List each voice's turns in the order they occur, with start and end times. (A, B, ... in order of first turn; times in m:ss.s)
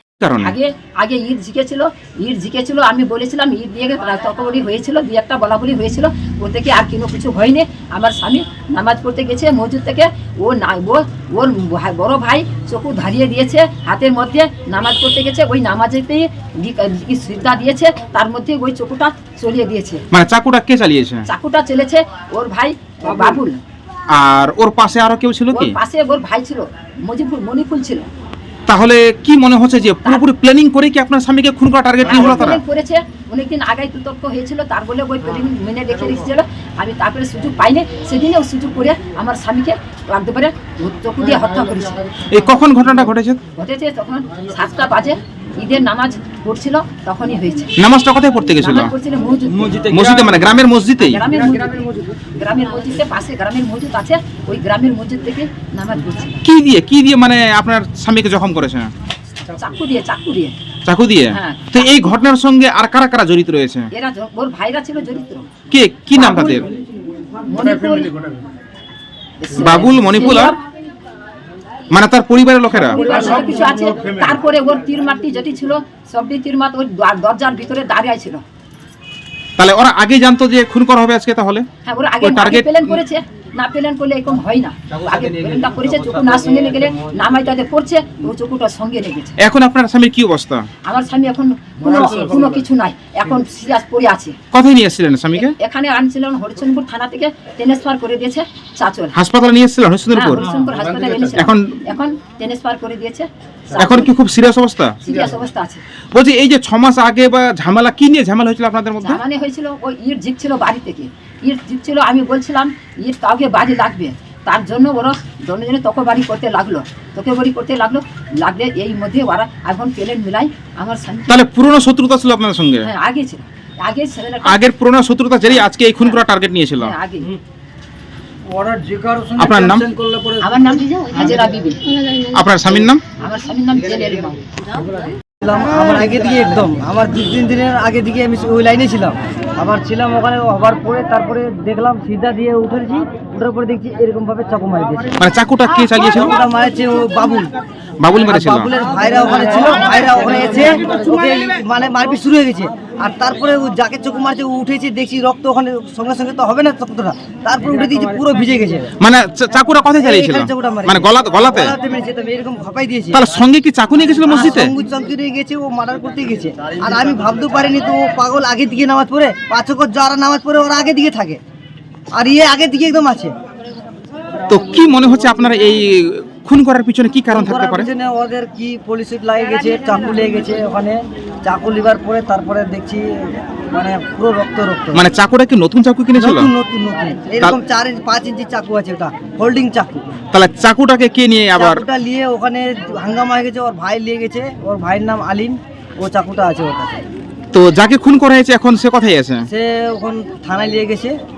0:00.2-0:00.6 A
0:00.4-0:20.0 B
0:20.1-0:21.3 A
0:21.3-0:23.6 B
0:24.1-0:25.8 A
0:25.5-0:28.1 B
0:28.7-0:32.6 A
0:32.0-0:42.1 B
0:42.3-0:43.4 A
0:43.6-0:47.7 B
0:47.8-0:48.9 A
0:48.6-0:50.0 B
0:49.9-0:51.2 A
0:51.0-0:56.4 B
0:56.4-0:58.9 A
0:59.5-1:00.6 B
1:00.9-1:03.9 A
1:01.3-1:02.2 B
1:03.9-1:05.5 B
1:05.7-1:06.7 A
1:06.2-1:06.7 B
1:07.5-1:08.2 B
1:09.4-1:10.6 B
1:09.6-1:10.6 A
1:11.9-1:13.0 A
1:12.8-1:18.4 B
1:19.6-1:21.7 A
1:21.8-1:29.4 B
1:22.2-1:23.0 A
1:29.4-1:30.7 A
1:30.9-1:34.4 B
1:34.5-1:35.6 A
1:35.3-1:39.2 B
1:39.1-1:40.5 A
1:40.1-1:44.2 B
1:41.4-1:41.8 A
1:43.8-1:45.0 A
1:45.0-1:45.8 B
1:46.1-1:49.2 A
1:49.0-2:01.5 B
2:01.3-2:02.9 A
2:02.8-2:04.6 B
2:04.4-2:07.0 A
2:05.4-2:06.2 B
2:06.8-2:07.3 B
2:08.9-2:09.3 C
2:09.4-2:09.9 A
2:09.9-2:10.3 C
2:10.4-2:12.2 B
2:12.3-2:13.0 A
2:13.2-2:14.9 B
2:15.4-2:25.1 C
2:25.2-2:26.3 A
2:26.2-2:27.5 C
2:28.0-2:28.7 A
2:28.3-2:38.9 C
2:39.0-2:41.8 A
2:40.0-2:43.3 C
2:43.1-2:44.7 A
2:44.2-2:51.4 C
2:52.1-2:53.3 C
2:54.5-2:57.9 A
2:57.3-3:03.1 C
3:03.7-3:05.0 C
3:05.0-3:06.5 A
3:06.2-3:10.2 C
3:10.3-3:11.8 A
3:11.5-3:17.0 C
3:17.5-3:19.5 A
3:19.5-3:21.2 C